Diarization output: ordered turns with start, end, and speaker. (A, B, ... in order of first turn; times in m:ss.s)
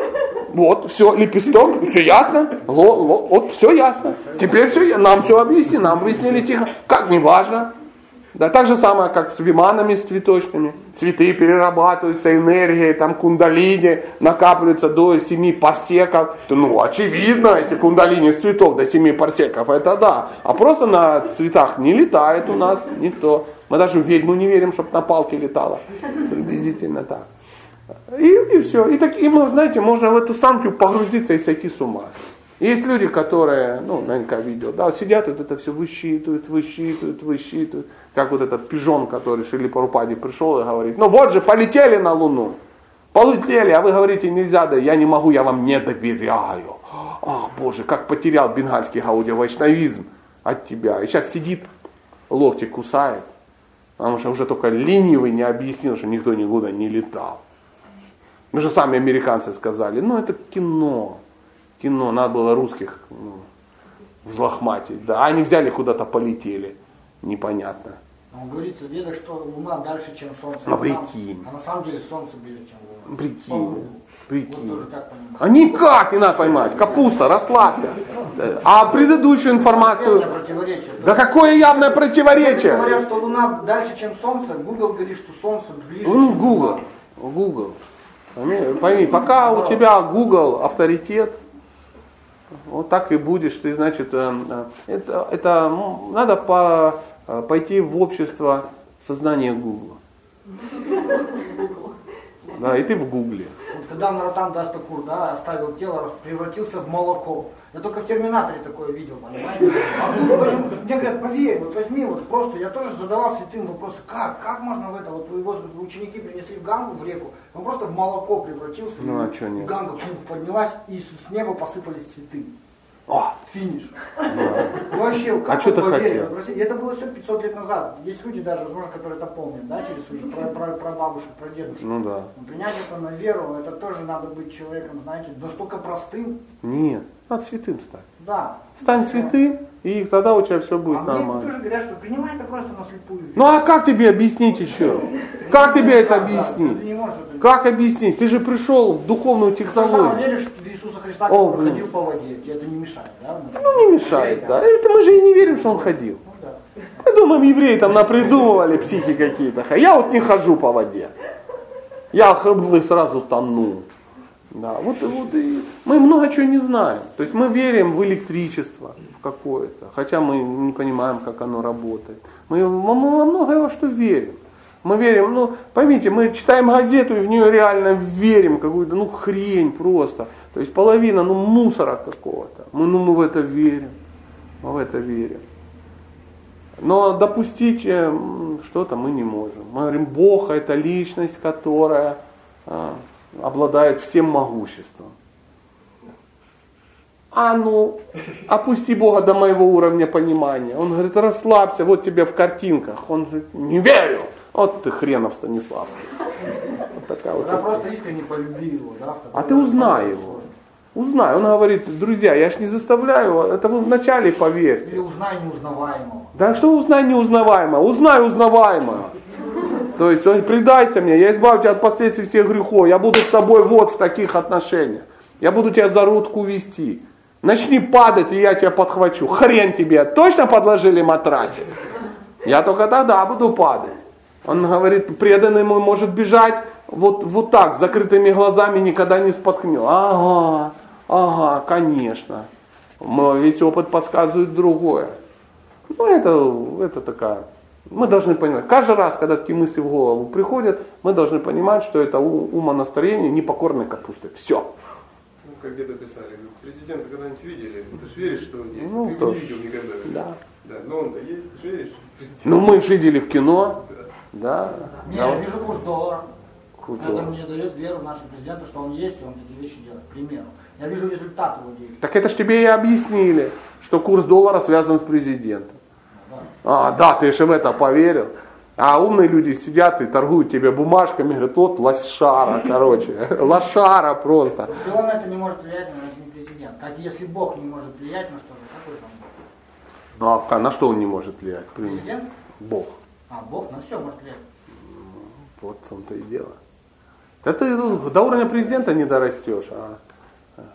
0:00.5-0:07.7 A
0:08.3-0:27.3 A
0:28.1-0:42.6 A
0:43.1-0:51.7 A
0:52.3-0:53.3 A
0:54.0-0:57.4 A
0:58.5-1:01.2 A
1:01.8-1:03.4 A
1:04.2-1:08.0 A
1:08.3-1:16.9 B
1:10.6-1:11.4 A
1:13.1-1:14.8 A
1:15.4-1:20.3 A
1:19.5-1:26.8 B
1:21.0-1:23.1 A
1:26.0-1:27.8 A
1:28.3-1:31.4 A
1:29.2-1:29.8 B
1:32.6-1:40.0 A
1:42.5-1:43.6 A
1:43.6-2:02.5 B
1:59.0-1:59.8 A
2:03.1-2:03.4 A
2:03.4-2:16.4 B
2:04.3-2:04.9 A
2:05.4-2:06.3 A
2:11.8-2:12.3 A
2:16.6-2:18.1 A
2:18.2-2:19.3 B
2:18.8-2:21.5 A
2:20.9-2:23.7 B
2:23.4-2:26.8 A
2:24.7-2:27.6 B
2:27.4-2:30.2 A
2:29.6-2:34.6 B
2:31.3-2:31.9 A
2:33.5-2:36.2 A
2:35.5-2:36.6 B
2:37.0-2:41.1 A
2:42.1-2:43.9 A
2:44.5-3:04.0 A
3:04.6-3:05.4 A
3:06.8-3:15.1 A
3:17.3-3:27.8 A
3:27.4-3:30.5 B
3:29.3-3:30.4 A
3:30.9-3:35.0 A
3:34.8-3:36.5 B
3:36.3-3:39.1 A
3:39.9-3:51.7 A
3:52.4-4:02.5 A
4:03.0-4:05.2 A
4:05.9-4:14.7 A
4:15.4-4:22.8 C
4:18.8-4:20.4 A
4:22.4-4:25.4 A
4:25.0-4:26.3 B
4:26.8-4:27.3 A
4:27.0-4:32.0 B
4:32.0-4:35.8 A
4:36.1-4:36.5 B
4:36.6-4:44.9 A
4:44.7-4:49.4 B
4:50.2-4:52.1 A
4:51.8-4:52.3 B
4:52.6-4:53.0 A
4:53.3-4:54.4 B
4:54.9-4:56.6 A
4:57.4-5:00.0 A